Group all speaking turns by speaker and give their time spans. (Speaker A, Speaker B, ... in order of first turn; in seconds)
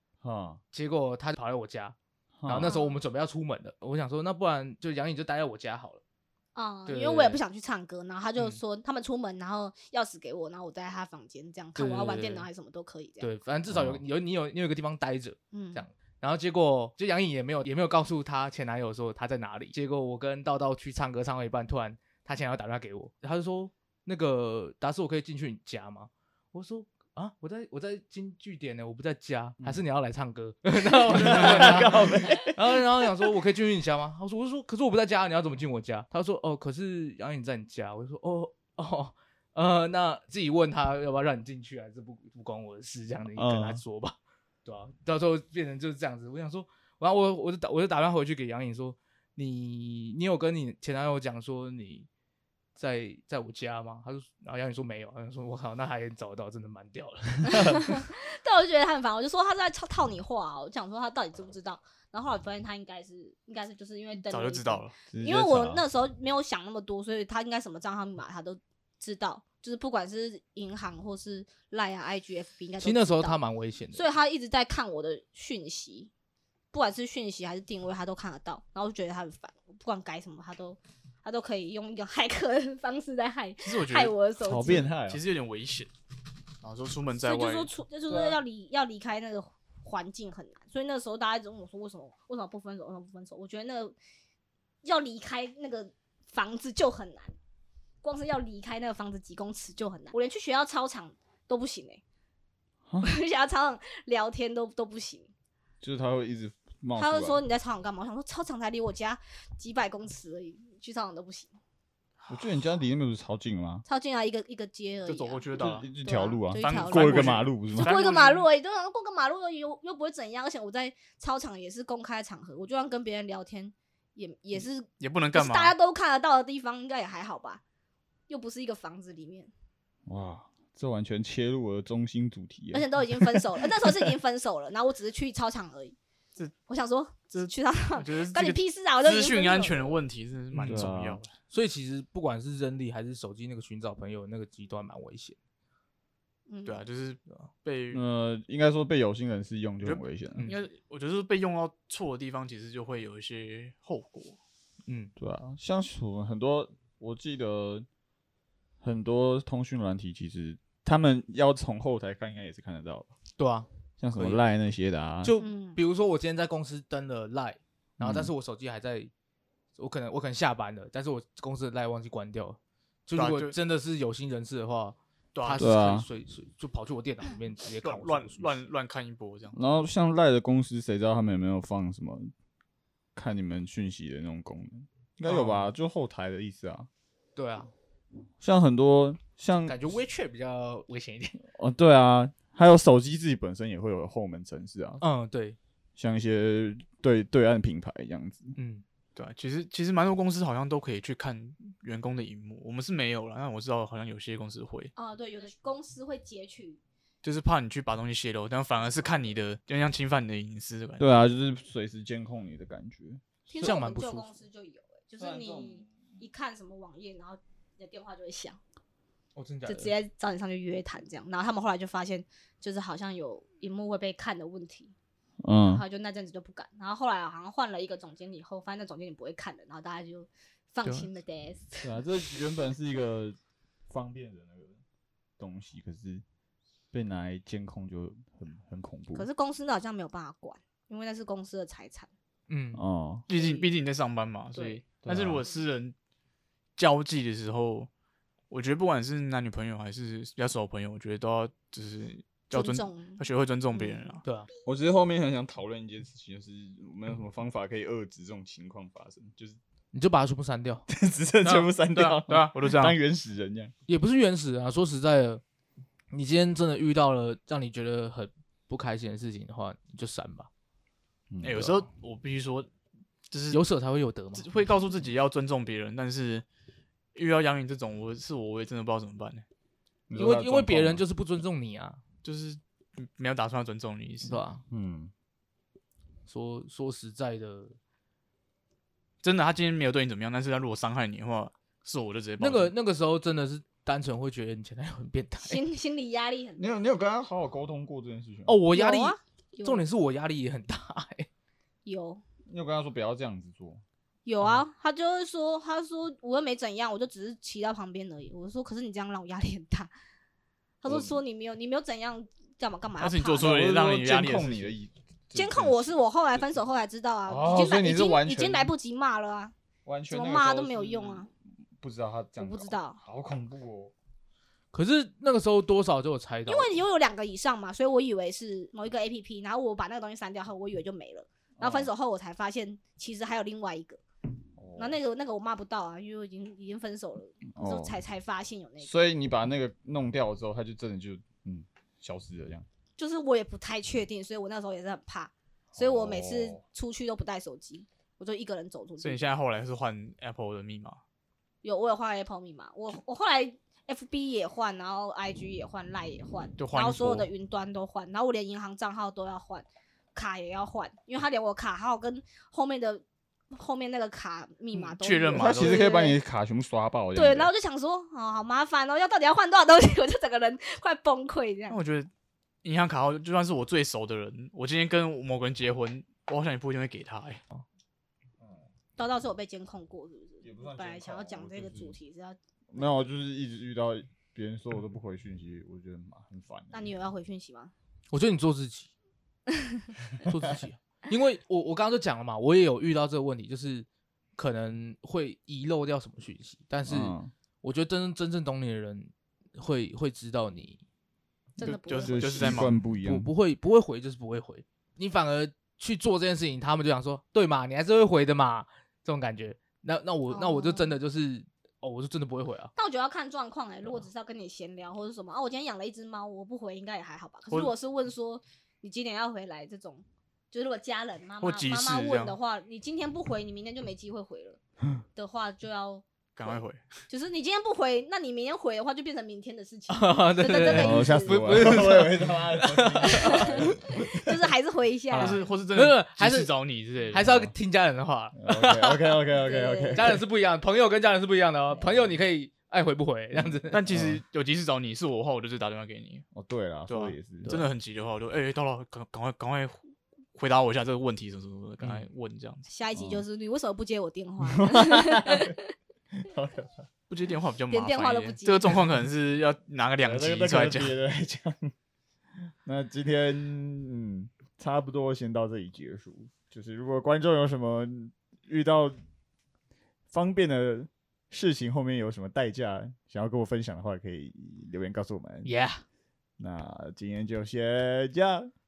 Speaker A: 0.2-0.6, 2.4-2.7, 13.7-14.0, 31.1-33.1, 43.3-43.8, 65.1-65.8, 84.4-85.2, 88.1-88.4, 105.8-107.4, 112.3-113.8, 115.6-118.0, 130.1-133.8, 140.6-141.2, 147.9-150.5, 155.2-157.8, 158.8-163.1, 164.0-165.3, 168.0-168.3, 175.6-176.1, 179.5-182.3, 183.1-186.9, 188.4-189.8, 191.5-195.0, 196.0-198.6, 211.0-213.2, 225.4-225.8, 231.8-233.3, 233.9-234.8, 235.4-236.2, 236.9-239.3, 242.7-243.2, 245.0-245.4, 254.6-259.6, 260.9-263.7, 271.3-271.8, 280.1-281.0, 284.7-285.1, 296.6-298.6, 302.5-303.8, 310.8-311.2, 313.4-315.9, 317.3-318.7, 319.9-323.9, 331.6-331.9, 334.6-335.0, 337.5-337.9, 338.8-342.6, 345.7-346.6, 365.3-367.5, 380.4-381.9, 382.7-386.9, 396.9-397.3, 402.0-403.3, 430.7-434.0, 438.4-440.2, 443.4-444.2, 446.3-447.6, 452.9-453.2, 454.4-455.5, 456.1-456.9, 460.0-461.7, 462.6-469.0, 470.1-475.5, 476.4-478.5
Speaker B: 0.7-6.0, 6.8-7.4, 11.8-12.5, 13.2-52.1, 52.8-57.8, 72.8-74.0, 140.5-140.9, 141.5-145.3, 154.8-155.1, 163.4-164.4, 165.2-169.1, 169.8-178.6, 185.2-185.7, 187.3-187.7, 189.7-191.4, 195.0-195.6, 198.6-198.8, 213.6-214.3, 215.2-215.7, 219.3-219.9, 242.5-242.8, 254.2-254.5, 259.9-260.9, 263.9-265.4, 266.1-270.5, 273.5-274.5, 280.1-282.0, 284.2-284.6, 286.3-287.8, 292.4-295.6, 298.4-301.3, 324.7-326.8, 388.1-388.9, 390.2-393.9, 394.4-400.8, 402.4-412.7, 429.9-433.8, 435.2-436.5, 437.1-439.2, 439.9-443.8, 475.4-475.8
Speaker C: 2.6-3.0, 6.5-13.3, 15.5-15.8, 57.5-73.4, 73.9-76.1, 76.7-84.9, 87.2-93.9, 94.8-97.3, 98.0-102.0, 103.0-105.3, 107.0-111.5, 113.8-115.4, 116.0-127.6, 128.3-129.5, 132.7-135.9, 136.7-140.0, 146.5-146.8, 165.4-165.8, 204.9-206.8, 213.5-218.6, 219.6-224.9, 225.6-231.9, 239.1-242.1, 243.3-243.7, 244.5-244.8, 252.5-253.2, 253.7-254.2, 295.4-296.7, 298.7-299.8, 301.8-302.2, 304.2-309.9, 310.8-313.6, 315.3-319.5, 320.1-321.3, 322.4-323.0, 326.5-334.0, 334.8-338.9, 343.0-349.3, 351.6-366.2, 367.1-371.8, 379.0-382.4, 386.7-387.7, 401.6-402.4, 410.3-411.0, 412.7-424.6, 425.1-431.8, 433.0-435.4, 439.4-440.1, 452.6-455.7, 457.7-458.8
Speaker D: 31.1-31.8, 64.3-64.9, 83.6-84.1, 84.7-85.9, 86.6-87.7, 112.2-112.6, 115.1-115.9, 116.6-118.5, 125.0-125.7, 137.3-141.3, 146.7-148.0, 149.8-154.4, 173.1-173.5, 175.3-175.7, 177.8-179.6, 199.2-204.9, 207.2-211.1, 243.3-245.9, 246.8-247.9, 248.5-254.2, 261.4-263.0, 271.4-272.7, 273.3-273.6, 274.3-276.4, 277.1-279.4, 282.2-284.4, 289.2-292.7, 313.0-314.7, 349.0-351.0, 356.6-357.3, 364.7-365.9, 371.7-372.1, 372.6-377.4, 401.6-402.8, 421.4-422.4, 426.4-426.9, 435.1-437.5, 443.7-446.2, 446.9-449.8, 450.3-452.6, 457.1-460.9